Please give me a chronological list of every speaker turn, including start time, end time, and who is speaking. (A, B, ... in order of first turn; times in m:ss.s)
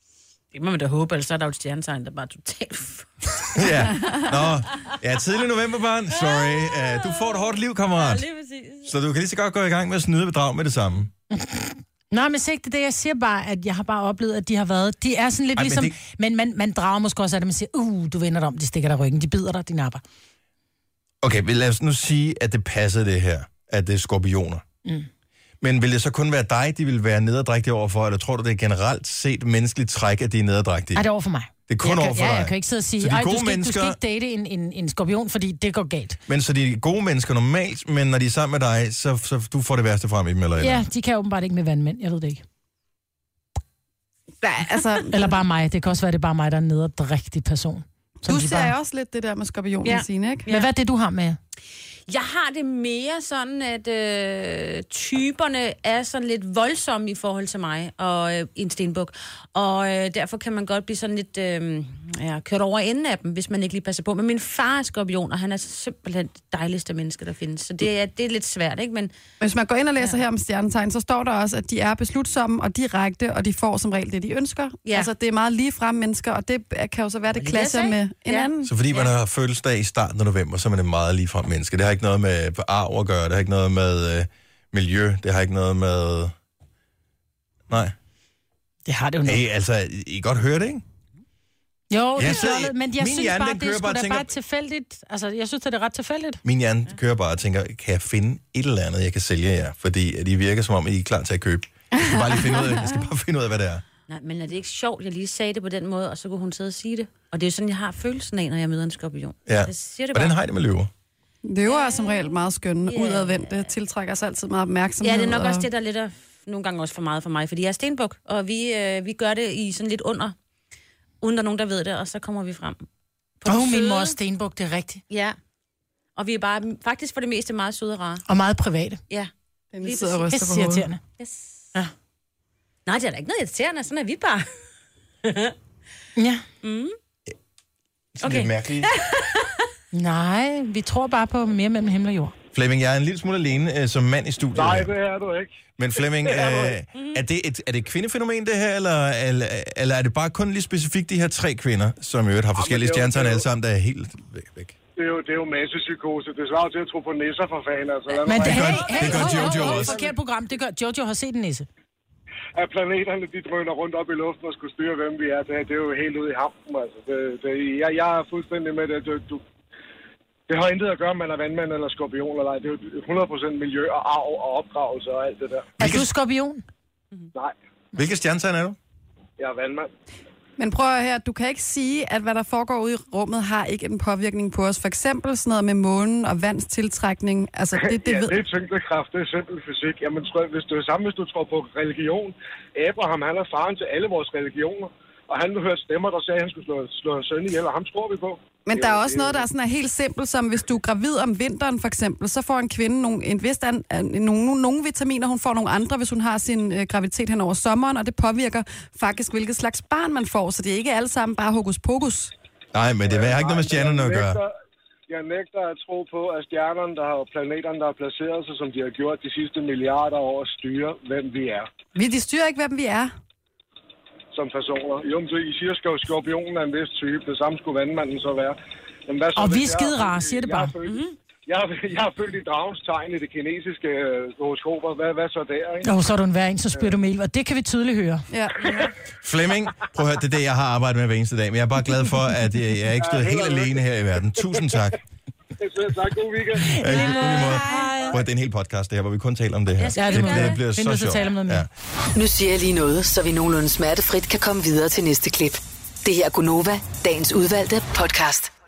0:00.5-0:03.9 A
0:03.6-0:08.3 B
0:06.1-0:08.9 A
0:08.8-0:11.1 B
0:11.4-0:20.0 C
0:15.6-0:16.0 B
0:21.2-0:24.6 B
0:25.6-0:31.1 B
0:31.0-0:36.2 C
0:31.7-0:34.0 B
0:36.3-0:40.8 B
0:40.6-0:42.4 C
0:44.4-0:45.1 D
0:45.1-0:48.7 C
0:48.3-0:50.5 D
0:49.8-0:50.7 A
0:50.5-0:51.4 C
0:52.1-1:09.1 A
1:09.4-1:18.7 D
1:14.9-1:15.1 A
1:17.3-1:19.1 A
1:18.6-1:26.3 B
1:27.7-1:28.0 B
1:28.9-1:29.4 C
1:29.2-1:30.8 B
1:31.9-1:36.4 C
1:32.2-1:34.3 B
1:36.4-1:43.8 B
1:42.4-1:42.8 D
1:44.1-1:50.3 A
1:49.5-1:50.9 B
1:51.4-1:55.7 D
1:51.6-1:53.8 A
1:55.0-2:00.4 A
2:01.2-2:02.8 A
2:03.4-2:04.2 A
2:03.5-2:05.0 C
2:05.1-2:05.4 A
2:06.2-2:08.2 A
2:08.3-2:09.0 C
2:09.7-2:10.8 D
2:09.8-2:10.4 A
2:10.3-2:11.0 C
2:11.2-2:11.7 A
2:12.9-2:14.5 A
2:15.2-2:15.6 A
2:16.2-2:16.4 C
2:16.6-2:17.0 A
2:18.2-2:18.9 B
2:18.2-2:19.6 A
2:19.9-2:22.3 C
2:22.5-2:24.9 B
2:24.6-2:25.6 E
2:25.8-2:34.8 B
2:26.1-2:26.7 E
2:27.0-2:27.2 A
2:32.6-2:33.4 E
2:35.0-2:38.5 E
2:38.2-2:40.1 A
2:38.3-2:41.7 C
2:38.4-2:40.0 B
2:42.6-2:49.4 E
2:50.5-2:55.7 E
2:55.8-2:56.1 B
2:55.8-2:56.6 C
2:58.0-2:58.8 B
2:59.4-2:59.9 E
3:00.6-3:08.4 D
3:07.9-3:19.4 E
3:18.7-3:32.3 D
3:32.7-3:34.4 B
3:33.0-3:34.5 E
3:35.1-3:41.7 E
3:42.0-3:43.1 D
3:44.3-3:55.9 E
3:49.4-3:50.7 C
3:50.8-3:51.2 A
3:55.8-3:58.2 C
3:58.3-3:58.9 D
3:59.2-4:05.0 B
4:03.0-4:03.8 E
4:05.6-4:07.2 E
4:06.7-4:08.2 C
4:06.8-4:11.7 B
4:09.8-4:11.3 A
4:10.0-4:11.6 C
4:12.2-4:18.5 F